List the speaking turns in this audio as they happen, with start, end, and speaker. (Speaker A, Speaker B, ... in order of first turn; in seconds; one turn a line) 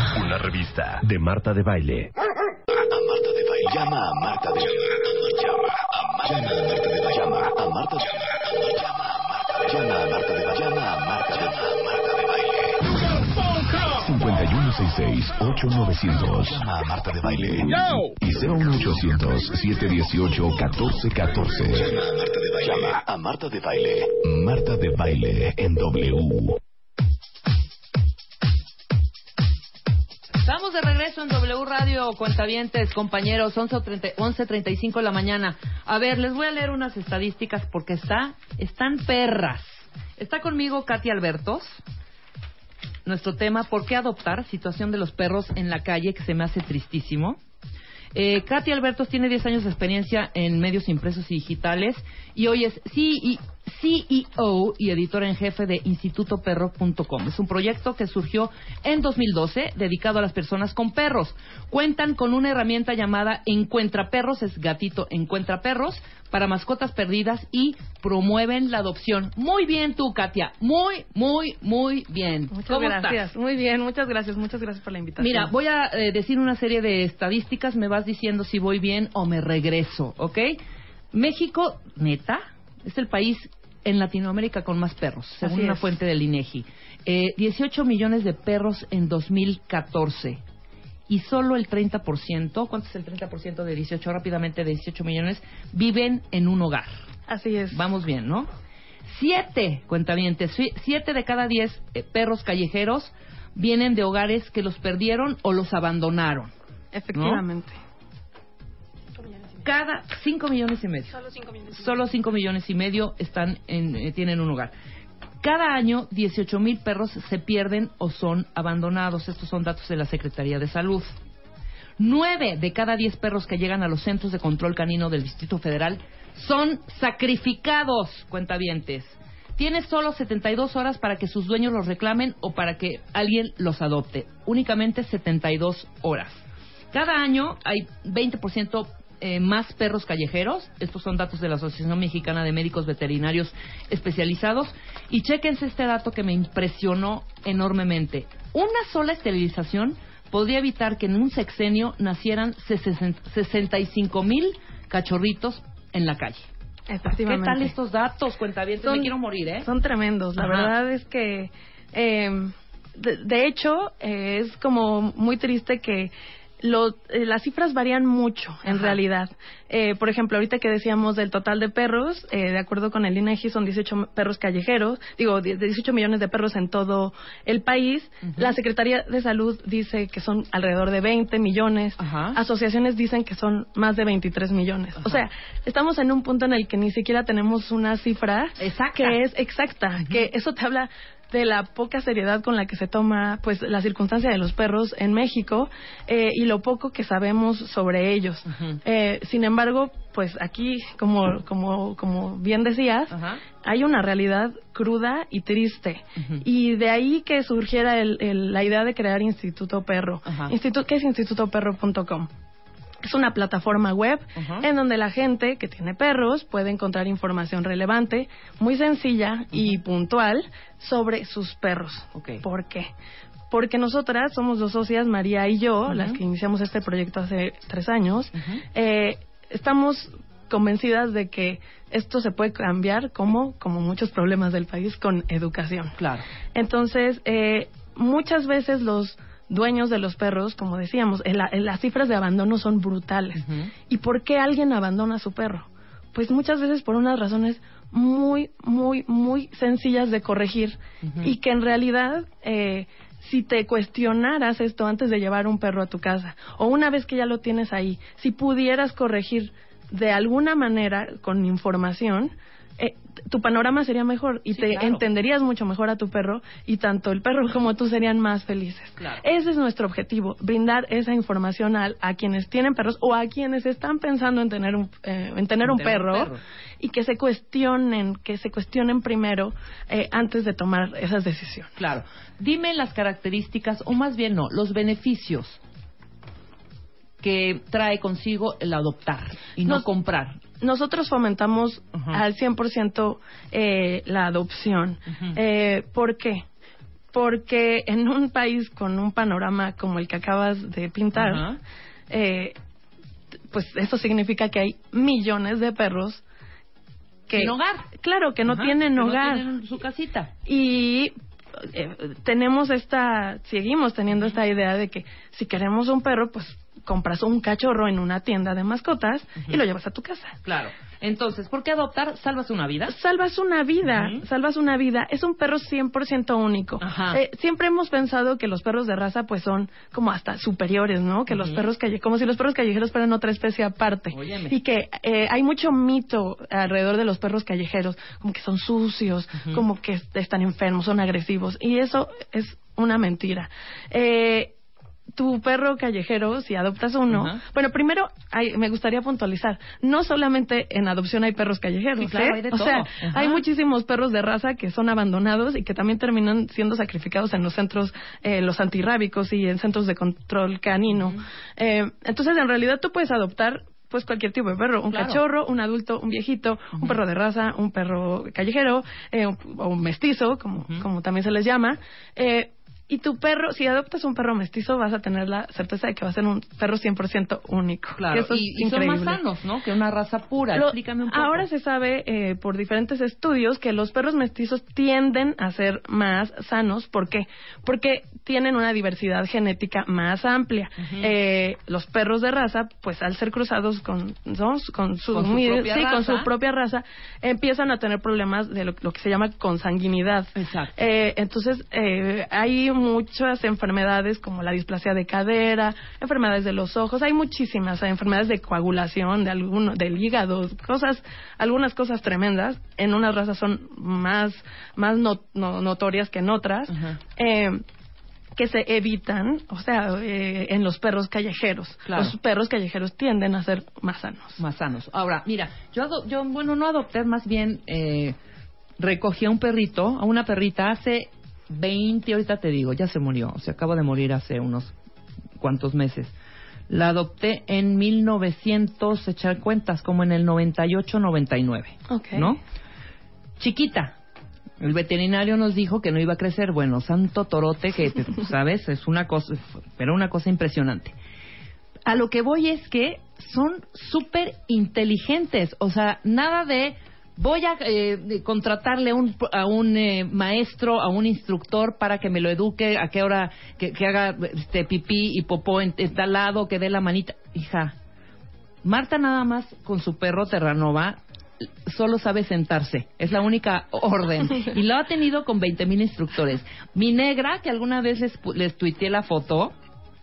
Speaker A: 0.1-2.1
Speaker B: 2.7-26.6
Speaker C: 30.4-41.8
Speaker C: 43.0-47.4
Speaker C: 48.1-73.3
Speaker D: 72.5-75.5
Speaker C: 75.2-80.6
Speaker C: 81.1-90.4
Speaker D: 85.4-85.9
Speaker C: 91.1-96.9
Speaker D: 97.3-97.8
Speaker C: 97.7-98.5
Speaker C: 99.0-106.5
Speaker D: 106.9-107.8
Speaker C: 107.1-107.4
Speaker C: 109.6-111.2
Speaker C: 111.7-114.7
Speaker C: 115.4-121.1
Speaker C: 122.0-156.4
Speaker D: 156.9-157.7
Speaker C: 157.1-159.7
Speaker D: 158.8-212.3
Speaker C: 160.4-160.7
Speaker C: 168.7-169.0
Speaker C: 182.0-182.4
Speaker C: 188.6-189.2
Speaker C: 198.5-198.8
Speaker C: 203.1-203.4
Speaker C: 206.2-206.4
Speaker C: 210.2-210.5
Speaker D: 213.0-222.9
Speaker C: 214.3-214.7
Speaker C: 222.1-222.4
Speaker D: 223.5-236.0
Speaker C: 225.9-226.2
Speaker C: 228.4-228.6
Speaker C: 236.0-236.2
Speaker D: 236.5-281.8
Speaker C: 243.3-243.7
Speaker C: 251.0-251.3
Speaker C: 264.5-265.0
Speaker C: 275.6-276.4
Speaker C: 281.8-285.6
Speaker C: 287.2-290.4
Speaker D: 290.6-296.4
Speaker C: 291.9-292.2
Speaker C: 295.1-295.4
Speaker D: 297.1-301.4
Speaker C: 301.1-301.6
Speaker D: 302.1-302.6
Speaker D: 303.5-306.2
Speaker D: 307.3-309.5
Speaker C: 307.3-307.9
Speaker C: 308.5-310.3
Speaker D: 310.4-320.4
Speaker C: 320.4-322.9
Speaker D: 322.9-344.5
Speaker C: 323.8-324.2
Speaker C: 326.8-327.2
Speaker C: 331.3-331.6
Speaker C: 334.1-334.6
Speaker D: 345.1-379.2
Speaker C: 347.1-347.4
Speaker C: 352.0-353.4
Speaker C: 364.9-365.2
Speaker C: 378.0-381.4
Speaker D: 380.5-417.6
Speaker C: 390.8-391.1
Speaker C: 395.1-396.3
Speaker C: 400.4-400.7
Speaker C: 416.7-417.0
Speaker D: 418.3-424.4
Speaker C: 421.9-422.1
Speaker C: 424.4-428.1
Speaker C: 428.8-434.7
Speaker C: 435.4-436.1
Speaker C: 436.7-442.4
Speaker D: 441.9-442.3
Speaker C: 443.4-443.9
Speaker C: 444.6-450.9
Speaker C: 451.9-467.7
Speaker C: 468.6-479.5